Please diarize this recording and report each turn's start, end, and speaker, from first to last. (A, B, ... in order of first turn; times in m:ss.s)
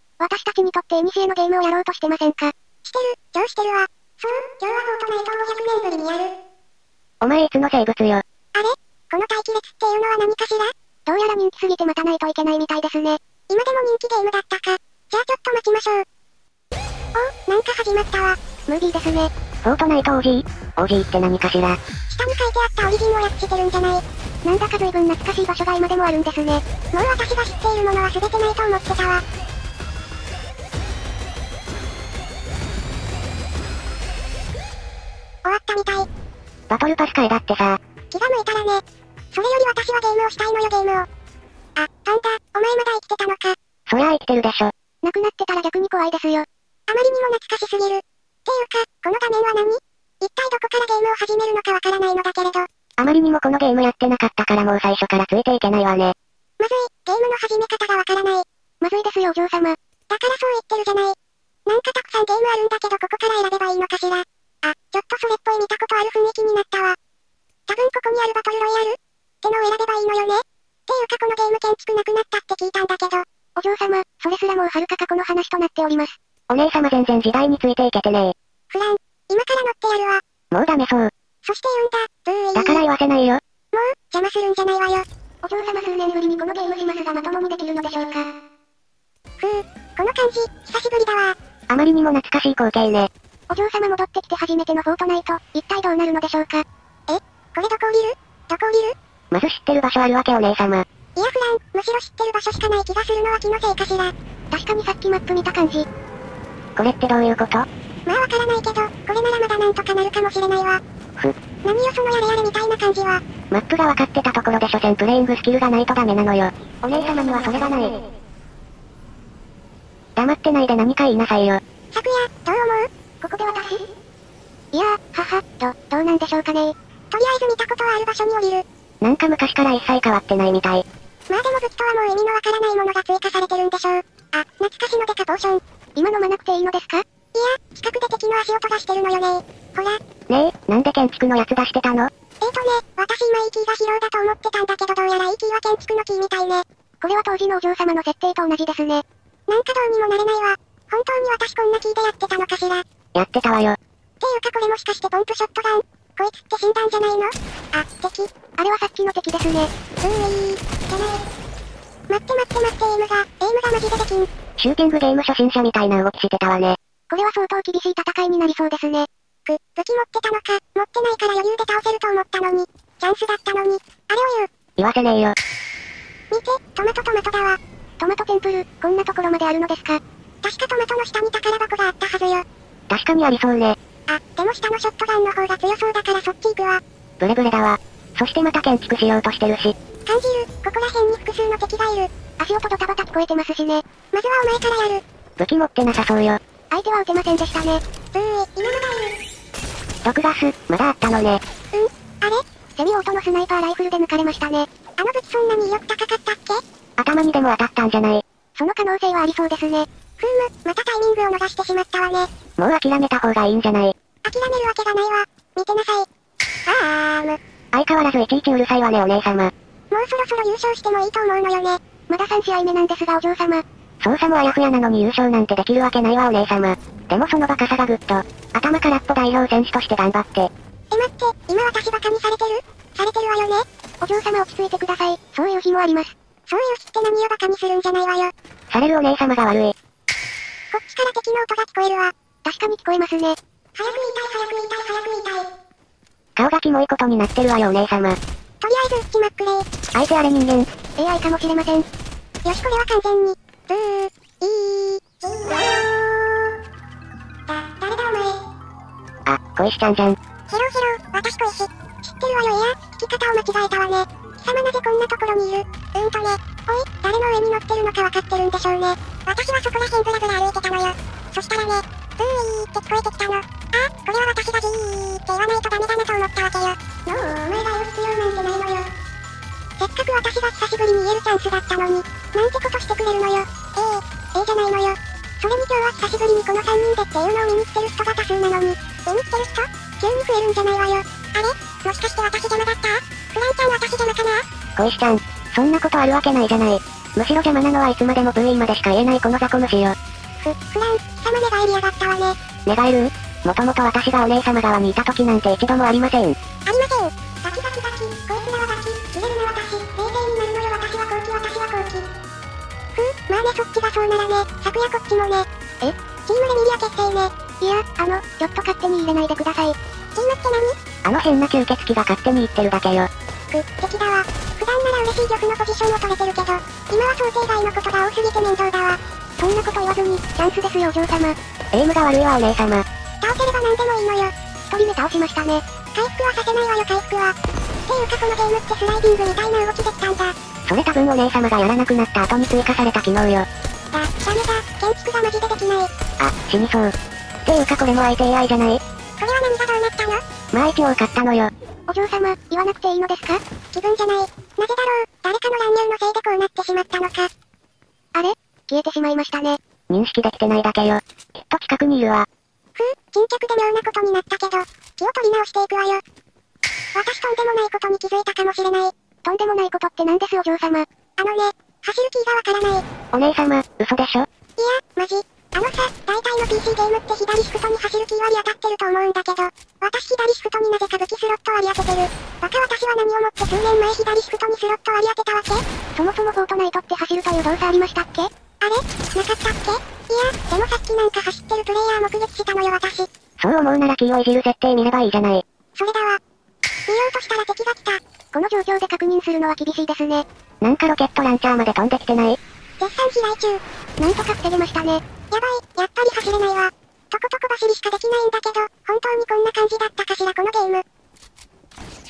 0:00.2-0:02.5 A
0:02.8-0:06.3 B
0:07.2-0:08.2 C
0:08.5-0:10.7 B
0:11.1-0:13.2 A
0:13.5-0:16.0 B
0:17.1-0:18.4 B
0:18.7-0:19.3 A
0:19.6-0:21.8 C
0:22.1-0:24.0 B
0:24.4-0:26.6 A
0:26.9-0:29.2 B
0:35.4-0:36.1 B
0:36.7-0:37.8 C
0:38.1-0:41.1 B
0:41.8-0:43.6 B
0:43.9-0:44.7 C
0:45.0-0:46.4 A
0:46.9-0:52.7 B
0:53.0-0:56.1 C
0:56.6-0:58.4 B
0:58.8-0:59.8 A
1:00.1-1:07.0 B
1:07.7-1:13.2 B
1:13.6-1:16.2 A
1:16.5-1:18.3 C
1:18.7-1:20.2 B
1:20.5-1:21.1 C
1:21.4-1:22.8 B
1:22.5-1:23.4 C
1:23.7-1:25.0 B
1:25.4-1:28.3 A
1:29.4-1:31.3 B
1:31.7-1:33.1 C
1:33.5-1:36.6 A
1:37.1-1:38.9 B
1:39.3-1:40.8 C
1:41.2-1:44.1 B
1:44.5-1:45.8 A
1:46.8-1:47.7 C
1:48.0-1:50.8 B
1:51.6-1:53.2 B
1:53.5-1:58.0 C
2:00.2-2:01.6 C
2:01.9-2:02.9 B
2:03.2-2:03.8 A
2:04.7-2:06.7 A
2:07.1-2:08.6 B
2:09.0-2:10.8 C
2:11.3-2:15.6 B
2:16.0-2:17.0 A
2:17.3-2:20.0 B
2:20.3-2:22.1 C
2:22.4-2:26.6 B
2:27.0-2:29.0 A
2:29.5-2:32.8 B
2:33.1-2:33.8 C
2:34.2-2:38.3 B
2:38.6-2:39.7 A
2:40.0-2:41.2 B
2:42.1-2:44.3 B
2:44.6-2:46.8 C
2:47.1-2:49.1 A
2:49.4-2:54.5 B
2:54.8-2:55.4 C
2:56.3-2:57.6 B
2:58.0-3:00.0 A
3:00.4-3:02.4 B
3:02.9-3:03.8 C
3:04.1-3:06.8 B
3:07.2-3:09.7 C
3:10.0-3:12.1 B
3:12.4-3:13.8 A
3:14.1-3:15.0 B
3:15.4-3:16.4 C
3:16.7-3:17.8 A
3:18.1-3:19.2 B
3:20.0-3:21.4 C
3:21.7-3:22.4 B
3:22.8-3:24.7 A
3:25.0-3:26.6 B
3:27.0-3:28.2 C
3:28.6-3:29.9 A
3:30.2-3:32.3 B
3:32.6-3:33.9 C
3:34.2-3:36.1 B
3:36.7-3:37.4 B
3:37.7-3:39.5 C
3:39.9-3:41.8 B
3:42.1-3:43.6 A
3:44.0-3:50.5 C
3:50.9-3:53.6 B
3:54.0-3:56.1 A
3:56.5-3:58.3 B
3:58.7-3:59.7 C
4:00.7-4:02.1 B
4:02.4-4:03.4 A
4:03.8-4:05.5 B
4:06.4-4:08.2 C
4:08.6-4:09.7 B
4:09.9-4:10.7 C
4:11.0-4:11.8 A
4:12.4-4:16.5 B
4:17.5-4:18.4 B
4:19.2-4:20.2 C
4:20.5-4:38.9 B
4:39.8-4:54.4 B
4:54.8-5:00.0 C
5:00.4-5:02.4 B
5:02.6-5:06.4 C
5:06.6-5:12.1 B
5:12.9-5:15.5 B
5:16.2-5:17.3 B
5:17.6-5:19.7 A
5:20.1-5:20.8 B
5:21.0-5:23.1 C
5:23.5-5:29.0 B
5:29.4-5:31.4 A
5:31.7-5:32.8 C
5:33.2-5:34.3 B
5:34.7-5:35.6 A
5:35.9-5:37.3 B
5:37.8-5:40.4 B
5:40.7-5:43.5 C
5:43.9-5:45.9 B
5:46.2-5:46.9 C
5:47.4-5:48.8 C
5:49.2-5:50.2 B
5:50.5-5:51.5 C
5:51.9-5:53.4 A
5:53.7-5:57.3 B
5:58.1-5:59.6 A
5:59.9-6:02.3 C
6:02.8-6:06.0 B
6:06.9-6:08.9 B
6:09.2-6:10.8 A
6:11.2-6:12.8 B
6:13.1-6:14.3 C
6:14.6-6:25.6 B
6:26.0-6:28.3 A
6:28.6-6:33.1 B
6:33.4-6:35.4 C
6:35.8-6:36.2 B
6:36.9-6:38.0 B
6:38.3-6:40.2 A
6:40.6-6:42.4 C
6:42.8-6:43.6 B
6:44.0-6:45.0 A
6:45.3-6:50.8 B